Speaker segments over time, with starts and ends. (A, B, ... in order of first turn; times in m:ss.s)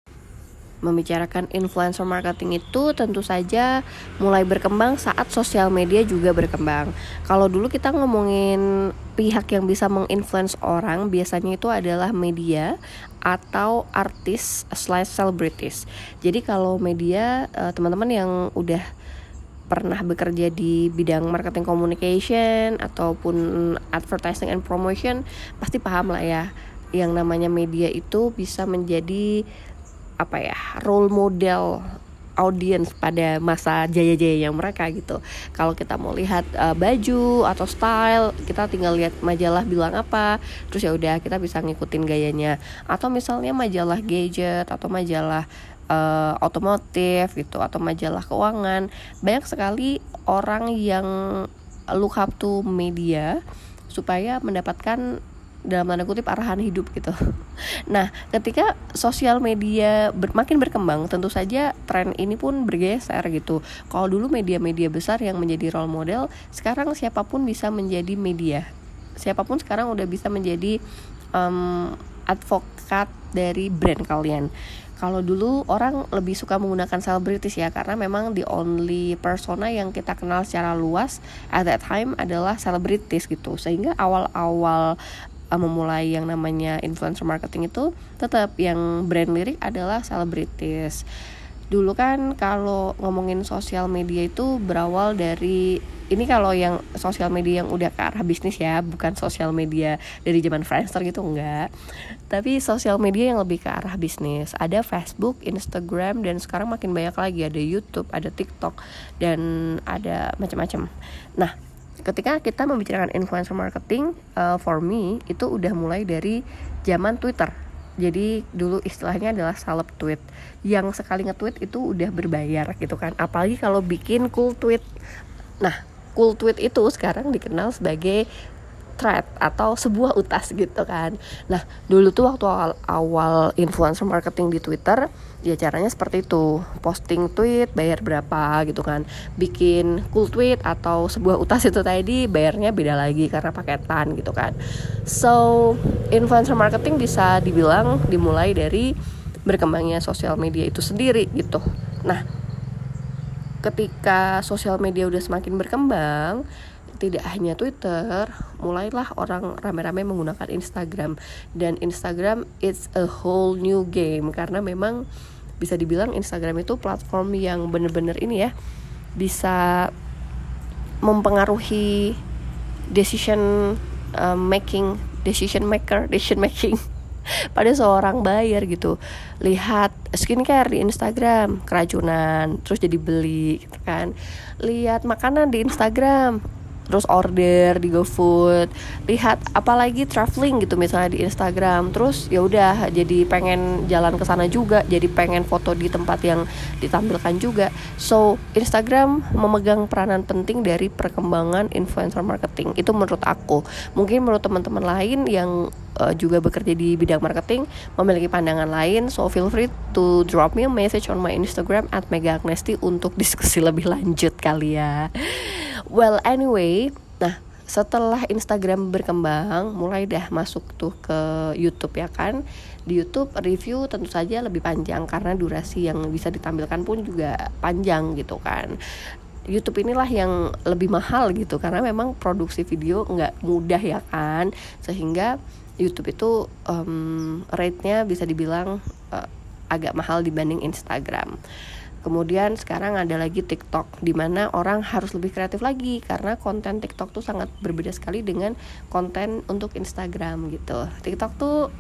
0:00.8-0:08.6 A
0:09.2-0:12.7 A
0:13.3-0:18.8 A
0:19.7-0:26.5 A
0:27.0-0:29.3 A
0:30.2-0:31.8 A
0:32.4-0:51.1 A
0:52.0-0:53.4 A
0:53.9-0:55.0 A
0:55.7-0:57.2 A
0:57.9-1:08.7 A
1:09.2-1:10.8 A
1:11.4-1:24.9 A
1:25.5-1:31.0 A
1:31.7-1:41.7 A
1:42.3-1:51.5 A
1:52.1-2:04.8 A
2:05.6-2:08.2 A
2:09.0-2:24.6 A
2:25.1-2:28.9 A
2:29.5-2:32.2 A
2:33.6-2:36.4 A
2:37.0-2:45.0 A
2:45.6-2:48.5 A
2:49.2-2:49.9 A
2:51.0-2:52.2 A
2:52.9-2:56.8 A
2:57.5-3:06.4 A
3:06.9-3:42.4 A
3:42.9-3:48.7 A
3:49.5-4:01.3 A
4:02.0-4:11.6 A